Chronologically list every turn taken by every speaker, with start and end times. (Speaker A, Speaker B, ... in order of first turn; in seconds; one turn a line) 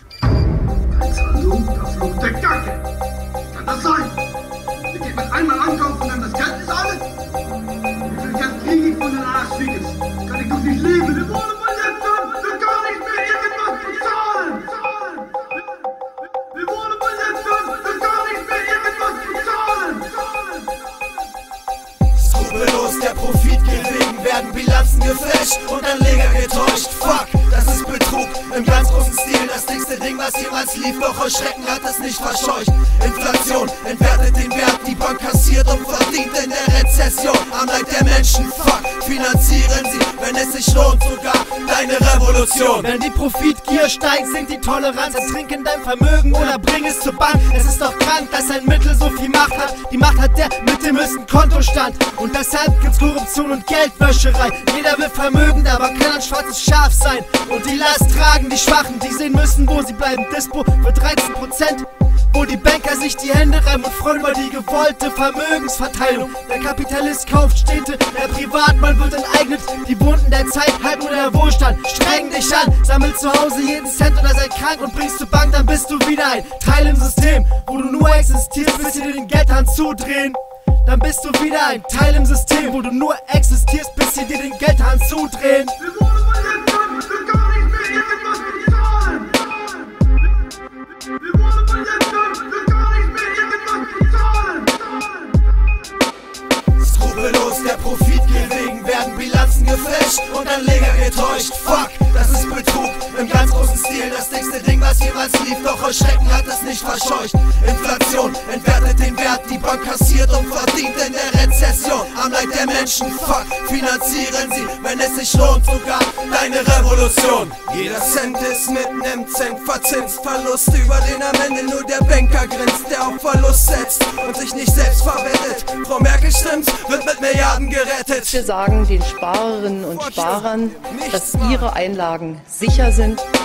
Speaker A: 0.9-2.8
Speaker A: 3.5-4.2
Speaker A: 4.9-7.0
Speaker A: 8.1-15.2
Speaker A: 16.5-20.3
Speaker B: 22.1-42.9
Speaker C: 42.7-85.7
Speaker A: 85.8-89.5
Speaker A: 91.2-95.0
Speaker B: 96.8-128.4
Speaker D: 128.2-133.2
Speaker B: 129.9-131.7